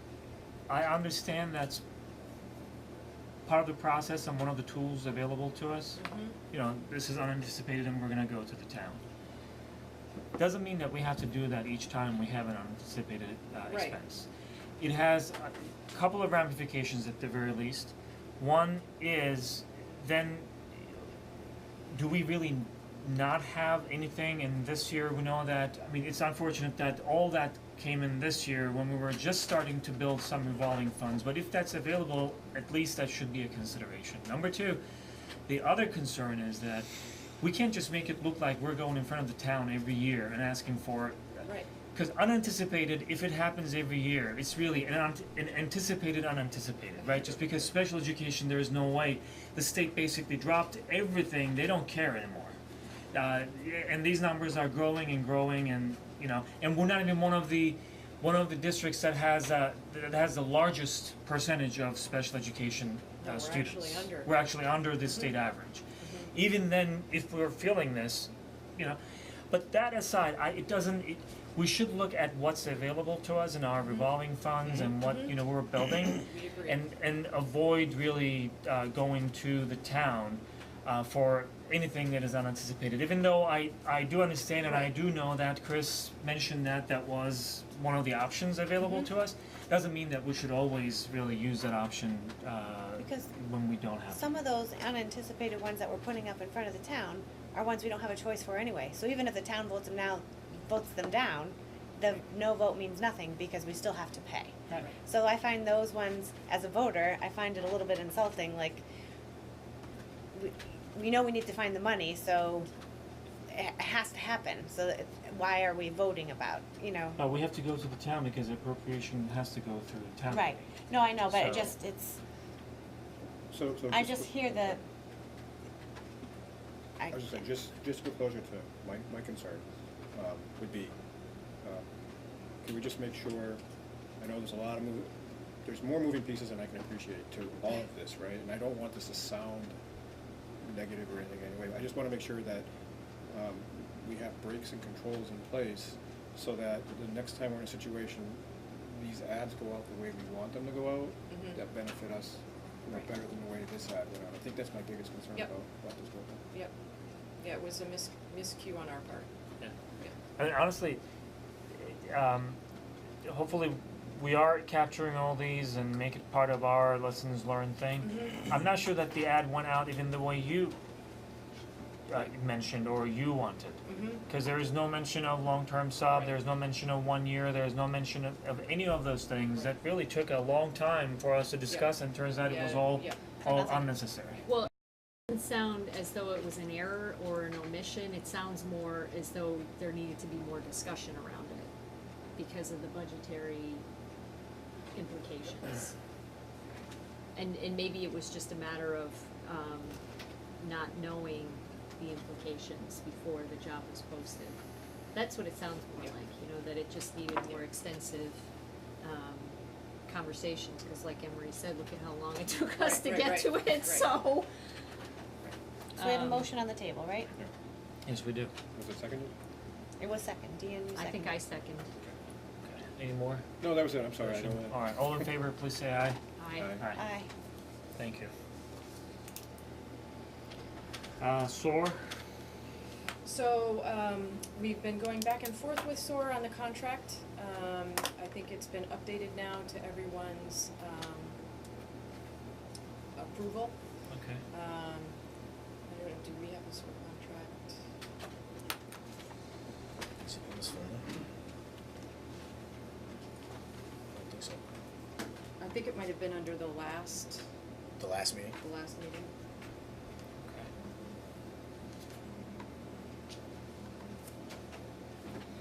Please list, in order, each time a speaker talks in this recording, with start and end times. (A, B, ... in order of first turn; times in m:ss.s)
0:00.7-0:01.8 A
0:03.4-0:06.0 A
0:06.0-0:06.4 B
0:06.5-0:09.0 A
0:10.4-0:14.3 A
0:13.7-0:14.0 B
0:14.8-0:21.0 A
0:21.9-0:34.8 A
0:35.5-0:36.9 A
0:37.4-0:52.6 A
0:41.4-0:41.7 B
0:47.0-0:47.6 B
0:53.1-1:09.0 A
1:03.2-1:04.3 B
1:06.0-1:06.3 B
1:09.5-1:34.3 A
1:14.8-1:15.3 B
1:16.1-1:16.8 B
1:33.0-1:33.3 C
1:34.1-1:48.8 C
1:50.3-1:52.7 C
1:53.5-1:57.2 C
1:57.2-2:01.7 A
2:00.3-2:02.2 C
2:03.5-2:04.6 D
2:03.9-2:04.8 C
2:07.0-2:07.3 C
2:07.1-2:09.6 D
2:10.1-2:10.9 D
2:12.6-2:13.6 D
2:14.2-2:15.1 D
2:15.6-2:19.8 D
2:20.6-2:22.7 D
2:23.3-2:36.4 D
2:31.3-2:31.6 B
2:37.4-2:39.3 B
2:40.4-2:41.0 A
2:41.8-2:42.6 A
2:43.2-2:50.8 A
2:48.1-2:48.4 B
2:52.1-3:04.5 A
2:53.8-2:54.2 B
3:02.4-3:03.2 B
3:03.4-3:03.9 C
3:05.3-3:11.7 E
3:12.4-3:13.8 E
3:14.9-3:15.9 E
3:17.4-3:20.0 E
3:20.6-3:24.6 E
3:25.1-3:28.4 E
3:29.0-3:29.6 E
3:30.1-3:34.5 E
3:32.8-3:34.1 B
3:36.0-3:36.5 E
3:36.0-3:37.3 C
3:38.0-3:38.5 A
3:38.7-3:39.3 D
3:40.0-3:41.4 C
3:40.9-3:41.9 E
3:42.6-3:43.4 A
3:43.6-3:44.8 D
3:44.2-3:46.2 A
3:46.4-3:46.8 E
3:47.0-3:47.3 C
3:48.0-3:48.3 A
3:51.2-3:52.0 A
3:53.2-4:01.4 B
4:03.2-4:03.8 B
4:04.1-4:04.4 A
4:04.5-4:05.2 B
4:05.9-4:07.8 B
4:10.2-4:11.1 F
4:14.1-4:14.6 F
4:15.6-4:17.4 B
4:18.0-4:18.6 F
4:18.6-4:19.3 B